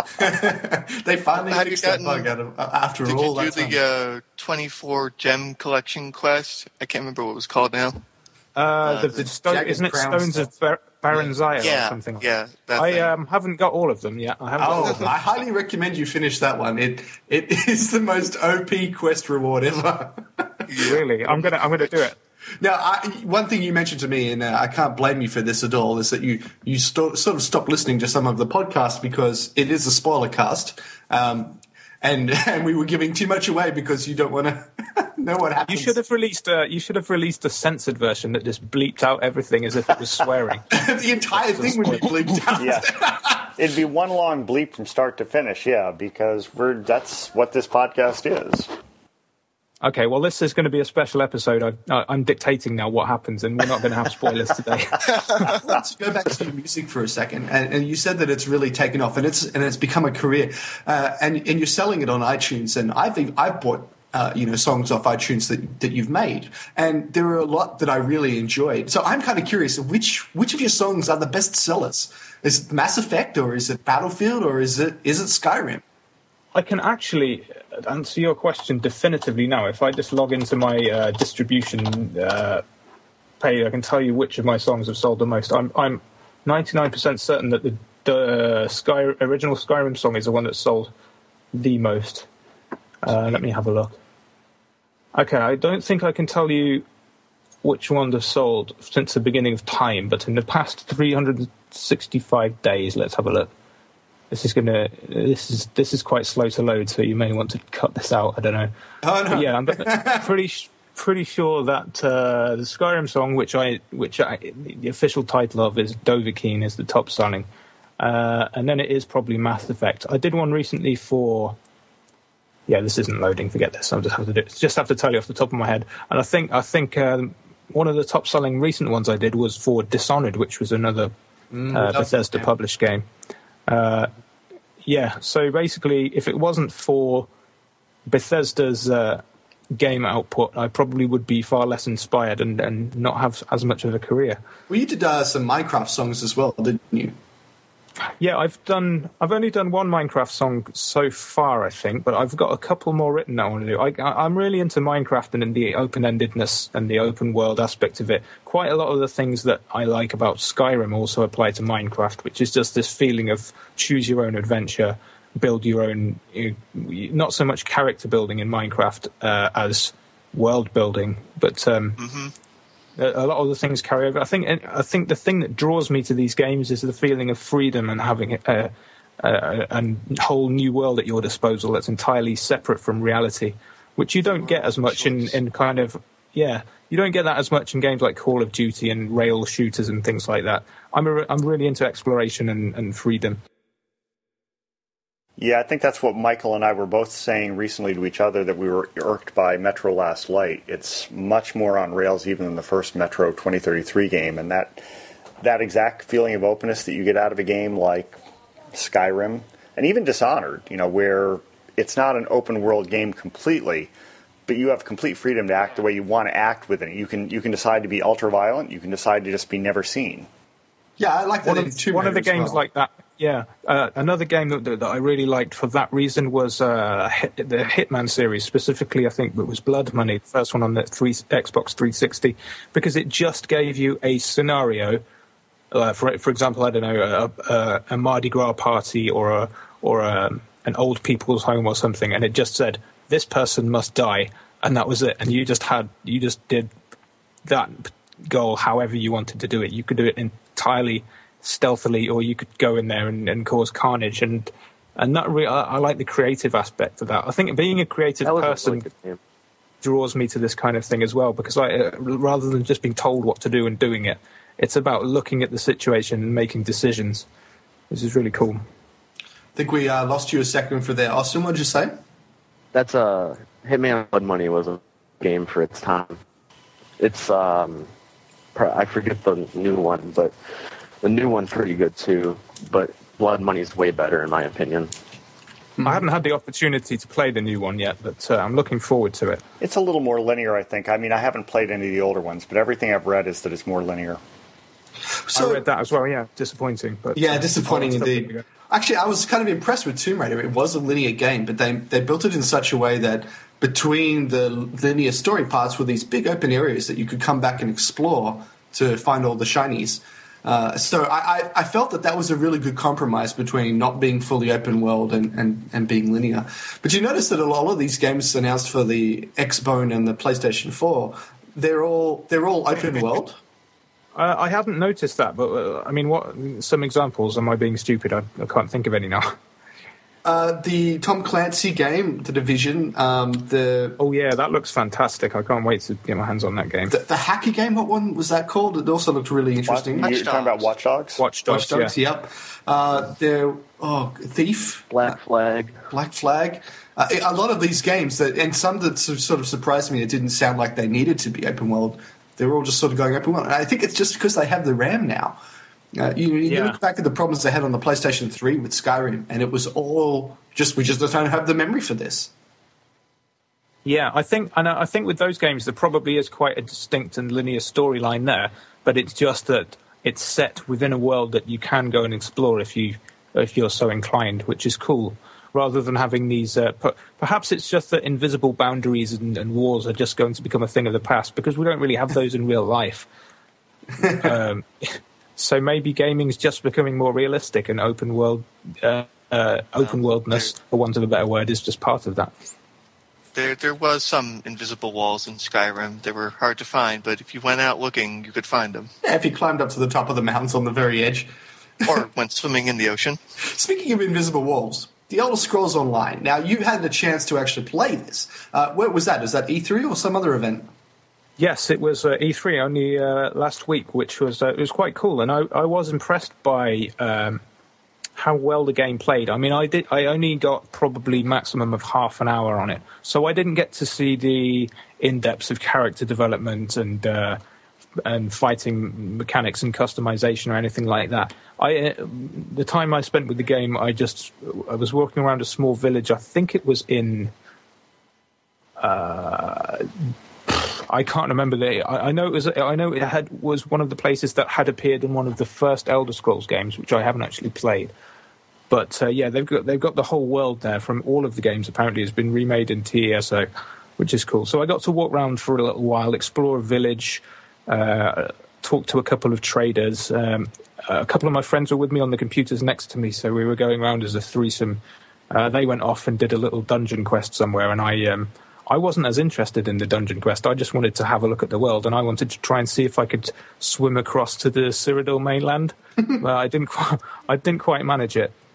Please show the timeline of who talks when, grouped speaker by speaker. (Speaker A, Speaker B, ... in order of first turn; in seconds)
Speaker A: 0.2-3.8, 9.2-10.5, 14.6-20.7, 22.6-36.0, 40.7-43.5, 55.4-75.8, 109.0-110.3, 131.5-132.5, 144.7-147.2, 221.0-222.6, 269.6-271.9, 295.2-295.6, 297.1-323.4, 330.2-334.0, 336.9-340.2, 341.5-345.1, 345.9-355.4, 355.9-362.3, 384.0-384.3, 399.0-401.3, 403.4-410.7
Speaker B: 1.4-2.3, 3.0-8.0, 8.8-9.2, 11.6-13.1, 20.7-21.0, 172.0-172.3, 184.2-185.4, 340.0-340.7, 389.8-390.5, 393.3-398.9, 401.9-403.2
Speaker C: 8.6-15.1, 20.8-22.2, 35.7-40.7, 41.3-42.5, 49.8-55.4, 76.5-82.6, 83.4-90.9, 91.5-92.3, 93.0-94.0, 95.2-96.8, 97.6-103.5, 104.3-108.7, 109.3-117.5, 118.0-121.6, 122.7-131.1, 131.7-133.0, 133.7-134.1, 134.8-137.3, 138.1-139.2, 139.7-144.4, 148.2-172.0, 173.0-193.4, 221.4-235.0, 235.7-246.7, 247.4-258.9, 259.8-267.3, 267.9-268.6, 285.8-289.4, 295.4-298.4, 324.1-329.3, 334.0-336.9, 341.2-341.9, 356.4-356.8, 363.9-383.1, 384.0-392.3, 411.4-417.4, 418.2-427.4, 428.0-437.3, 438.8-439.9, 440.9-447.9, 448.7-453.5, 454.0-464.8, 465.3-478.3
Speaker D: 42.6-42.9, 43.4-48.7, 195.4-204.8, 205.4-208.2, 208.7-213.9, 214.5-220.3, 289.6-294.2, 339.7-341.2
Speaker E: 258.2-259.2, 272.7-276.2, 277.0-277.9, 278.6-280.3, 281.0-284.9, 344.9-345.8